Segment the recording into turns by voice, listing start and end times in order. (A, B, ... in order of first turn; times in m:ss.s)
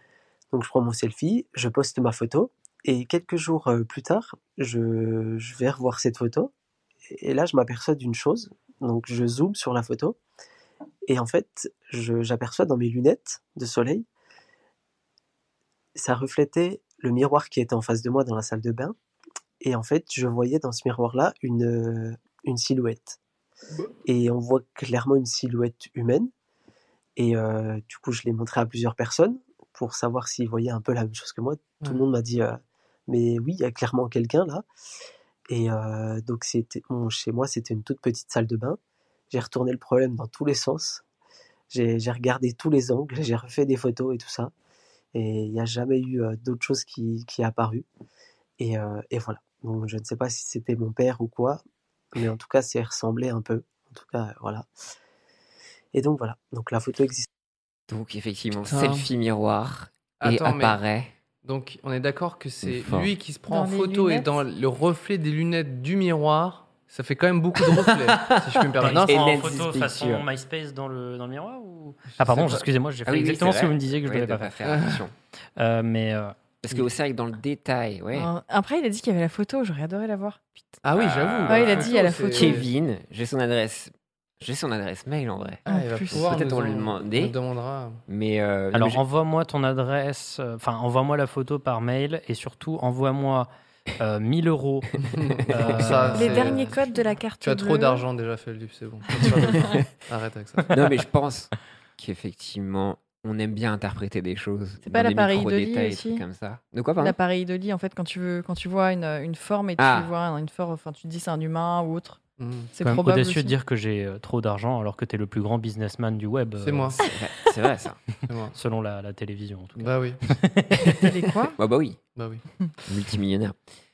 0:00.5-0:06.5 A
0:07.1-0:10.2 A
0:11.1-0:14.1 A
0:16.0-0:18.9 A
0:19.6-0:23.2 A
0:24.0-0:26.3 A
0:27.2-0:34.6 A
0:35.5-0:38.8 A
0:39.3-0:41.0 A
0:41.7-0:44.5 A
0:45.1-0:47.8 A
0:48.6-0:51.6 A
0:52.2-0:54.7 A
0:55.9-0:57.3 A
0:57.9-1:01.1 B
0:58.6-0:59.1 C
1:00.2-1:00.8 C
1:01.4-1:09.2 C
1:02.6-1:03.1 B
1:03.5-1:04.3 D
1:07.8-1:10.2 B
1:08.8-1:14.6 E
1:12.2-1:12.6 C
1:13.1-1:15.1 B
1:14.7-1:15.0 C
1:15.6-1:16.9 E
1:16.6-1:18.3 B
1:18.2-1:20.4 D
1:20.8-1:22.7 C
1:20.9-1:27.4 B
1:21.5-1:22.6 D
1:25.7-1:26.3 D
1:25.7-1:28.0 C
1:28.1-1:29.0 B
1:28.7-1:36.6 E
1:35.1-1:36.9 C
1:36.1-1:38.0 D
1:37.4-1:40.9 C
1:39.5-1:39.8 B
1:40.7-1:47.2 B
1:44.8-1:46.2 D
1:47.0-1:52.2 D
1:49.8-1:50.1 B
1:52.4-1:52.7 C
1:52.7-1:53.5 D
1:52.8-1:57.0 E
1:56.6-1:57.0 C
1:57.0-1:58.0 B
1:58.3-1:58.6 C
1:58.5-2:01.0 E
1:59.8-2:00.2 C
2:00.9-2:01.6 D
2:01.6-2:02.0 B
2:02.2-2:02.4 C
2:02.9-2:03.6 B